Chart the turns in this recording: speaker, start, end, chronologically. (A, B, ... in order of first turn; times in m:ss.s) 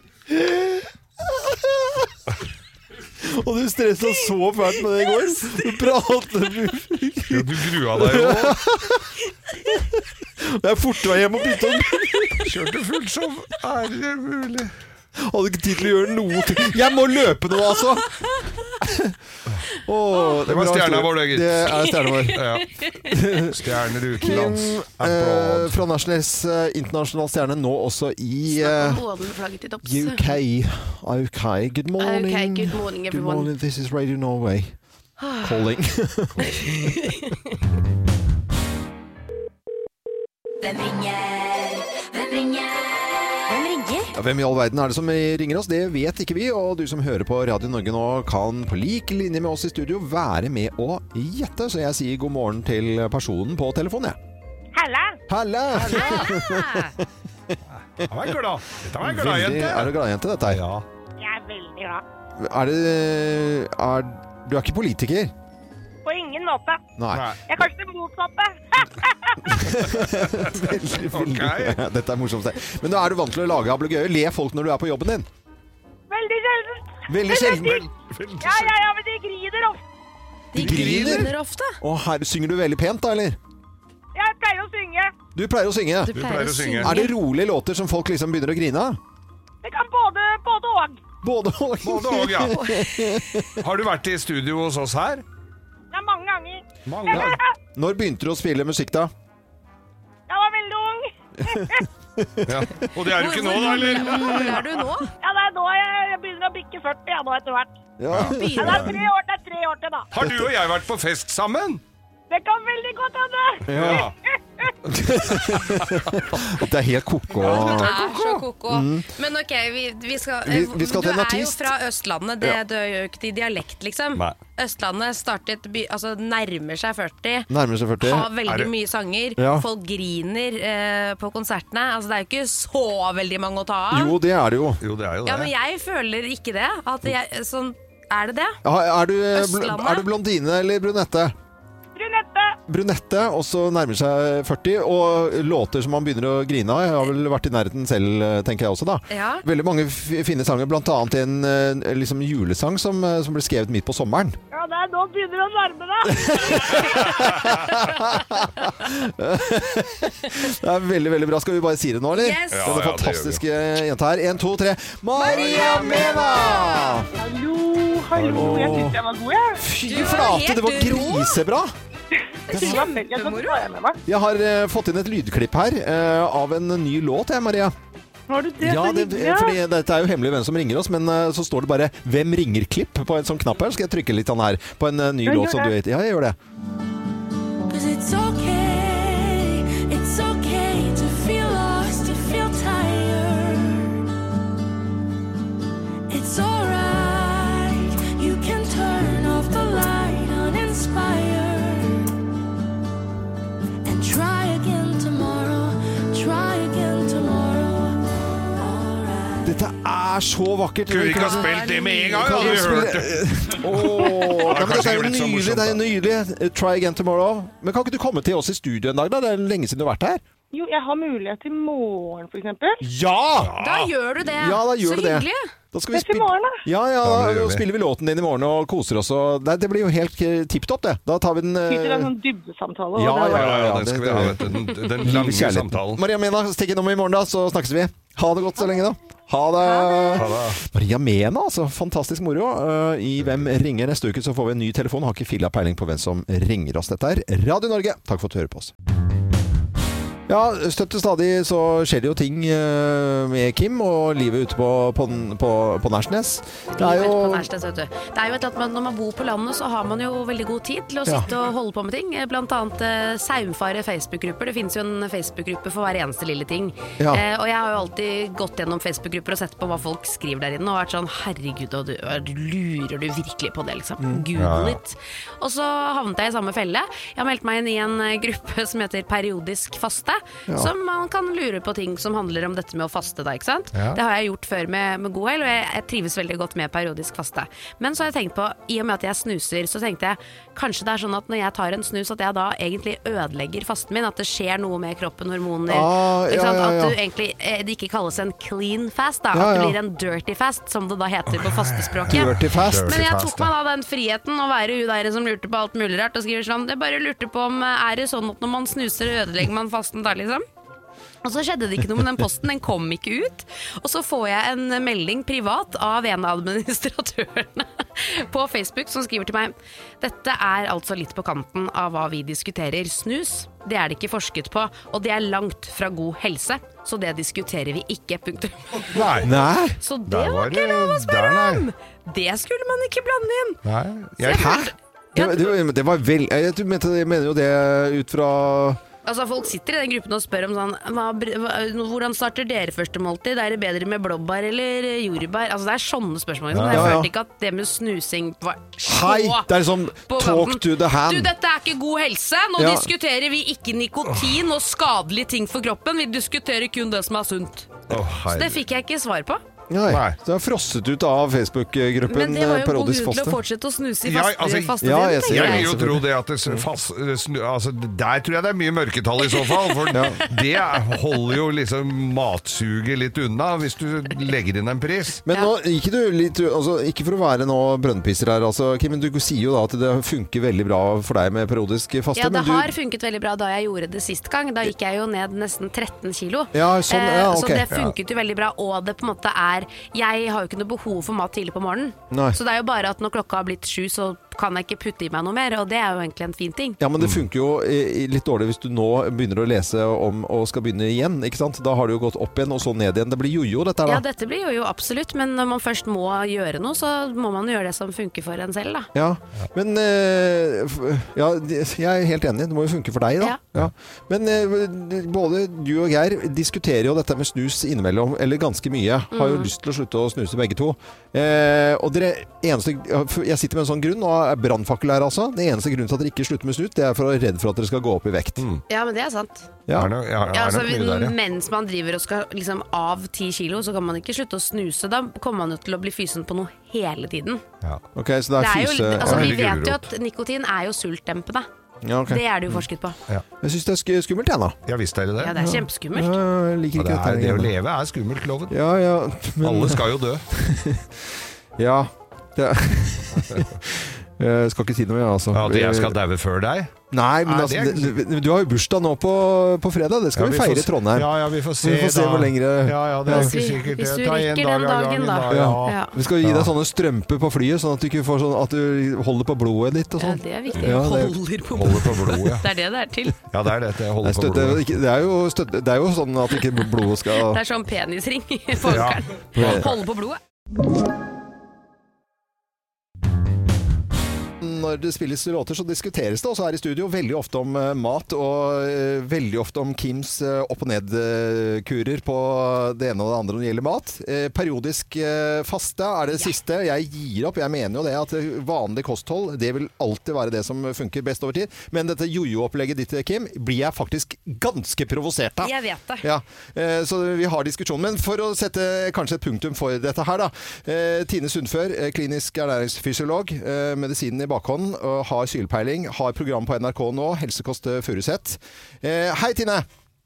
0:00.3-0:02.1 A
0:03.2-0:09.1 A
0:05.0-0:05.6 B
0:07.3-0:08.6 C
0:09.7-0:12.5 A
0:11.8-0:12.4 B
0:12.4-0:14.7 C
0:15.2-0:19.2 A
0:19.7-0:22.5 A
0:20.5-0:21.7 C
0:21.8-0:23.1 B
0:22.3-0:22.7 C
0:23.0-0:23.6 A
0:23.5-0:25.8 C
0:24.2-0:29.0 A
0:28.5-0:30.3 B
0:29.8-0:34.8 A
0:32.0-0:33.5 B
0:35.2-0:35.6 B
0:35.4-0:37.0 A
0:36.4-0:37.4 B
0:40.6-0:44.1 B
0:44.1-0:54.2 A
0:54.7-0:55.2 D
0:55.3-0:57.6 A
0:55.7-0:56.9 B
0:57.8-1:00.8 C
0:59.0-1:00.6 A
1:01.2-1:02.0 D
1:02.4-1:05.3 A
1:06.0-1:06.8 D
1:07.0-1:07.3 A
1:07.1-1:07.4 C
1:07.5-1:09.6 D
1:09.5-1:15.3 A
1:10.3-1:11.8 C
1:16.1-1:17.8 D
1:17.1-1:17.9 A
1:17.6-1:18.7 C
1:18.4-1:19.8 D
1:20.5-1:21.8 B
1:20.6-1:23.4 A
1:20.6-1:21.3 C
1:24.2-1:25.1 D
1:25.4-1:29.0 A
1:26.0-1:27.2 B
1:26.1-1:27.0 C
1:29.6-1:31.0 D
1:31.2-1:33.6 A
1:31.8-1:32.6 C
1:32.6-1:33.0 B
1:33.6-1:35.2 C
1:35.9-1:37.5 D
1:36.9-1:37.4 C
1:37.1-1:39.1 A
1:40.3-1:41.8 D
1:41.4-1:42.9 A
1:42.4-1:44.6 C
1:43.1-1:45.1 B
1:44.1-1:44.6 A
1:45.2-1:47.8 D
1:48.0-1:49.0 A
1:48.1-1:48.9 C
1:48.2-1:48.9 B
1:48.6-1:50.1 D
1:50.1-1:51.8 C
1:50.2-1:50.5 A
1:52.3-1:53.7 D
1:53.6-1:54.1 A
1:53.7-1:54.2 C
1:54.3-1:54.7 D
1:54.9-1:58.0 A
1:55.4-1:56.4 C
1:57.4-1:58.4 C
1:57.4-2:14.2 B
1:58.7-1:59.1 A
2:00.4-2:01.7 A
2:07.5-2:08.3 A
2:08.5-2:08.7 C
2:09.4-2:09.7 A
2:13.9-2:14.8 A
2:14.8-2:15.5 C
2:15.3-2:18.6 B
2:18.6-2:21.3 A
2:19.3-2:20.1 B
2:22.0-2:22.6 D
2:22.7-2:34.4 A
2:29.1-2:29.4 B
2:34.5-2:36.9 D
2:36.0-2:47.1 A
2:42.1-2:42.7 B
2:42.5-2:43.4 C
2:45.2-2:47.1 B
2:47.2-2:49.5 D
2:48.1-2:48.8 C
2:48.3-2:49.0 A
2:49.6-2:51.7 A
2:49.9-2:51.4 B
2:52.5-2:53.6 B
2:52.5-2:52.8 A
2:52.6-2:53.9 D
2:54.1-2:57.8 A
2:58.3-2:59.4 D
2:58.6-3:06.4 A
3:05.3-3:05.7 D
3:07.8-3:13.9 E
3:16.4-3:16.6 E
3:17.8-3:18.0 E
3:19.0-3:22.0 E
3:23.9-3:27.9 E
3:28.9-3:29.4 E
3:29.4-3:40.2 A
3:30.9-3:35.8 C
3:31.1-3:32.6 B
3:40.5-3:42.8 D
3:42.8-3:43.5 A
3:43.4-3:43.9 C
3:43.6-3:45.5 B
3:44.2-3:52.1 A
3:46.0-3:46.6 D
3:47.0-3:47.6 C
3:51.7-3:53.4 D
3:53.0-4:08.7 A
3:53.2-3:56.0 C
3:59.7-4:00.2 B
4:00.1-4:00.6 C
4:10.3-4:17.5 A
4:16.7-5:10.4 B
4:34.4-4:34.8 C
4:43.7-4:44.0 C
4:55.7-4:57.0 A
4:59.3-4:59.8 A
5:01.3-5:03.5 C
5:02.1-5:03.0 A
5:11.2-5:29.2 B
5:28.9-5:29.3 C
5:29.2-5:29.8 A
5:29.8-5:33.6 B
5:30.1-5:31.6 C
5:33.6-5:34.5 C
5:34.2-5:35.6 B
5:34.3-5:38.8 A
5:39.1-5:49.5 B
5:46.5-5:47.0 C
5:46.7-5:47.1 A
5:48.8-5:51.3 A
5:50.1-5:59.4 B
5:52.6-5:52.9 A
5:57.9-5:58.6 C
5:59.7-6:03.4 A
5:59.9-6:00.2 C
6:02.1-6:05.7 B
6:04.0-6:15.2 C
6:04.8-6:06.6 A
6:09.3-6:09.8 B
6:09.9-6:10.2 A
6:15.2-6:22.7 A
6:22.2-6:36.8 B
6:26.5-6:27.7 A
6:32.1-6:32.4 A
6:36.8-6:44.0 A
6:37.0-6:37.2 C
6:43.9-6:48.9 B
6:48.9-7:08.5 A
6:59.1-6:59.5 B
7:08.4-7:08.6 C
7:08.7-7:09.5 B
7:09.7-7:09.9 A
7:09.7-7:11.2 C
7:10.3-7:17.4 B
7:18.0-7:19.4 A
7:18.4-7:21.5 B
7:19.0-7:19.9 C
7:21.8-7:22.2 A
7:22.1-7:23.0 B
7:23.4-7:24.6 A
7:24.7-7:25.4 C
7:25.2-7:26.2 B
7:25.3-7:27.6 A
7:26.8-7:28.5 C
7:28.5-7:31.0 A
7:29.4-7:30.2 C
7:31.6-7:36.0 A
7:35.3-7:36.7 C
7:36.9-7:43.4 A
7:37.2-7:37.9 C
7:40.2-7:46.5 C
7:43.1-7:46.0 B
7:45.3-7:51.2 A
7:50.0-7:53.2 B
7:51.5-7:52.5 C
7:53.3-7:54.7 C
7:54.0-7:57.4 A
7:57.2-8:00.2 B
7:58.6-7:59.6 C
7:59.4-7:59.7 A
8:04.4-8:39.7 A
8:25.4-8:26.1 B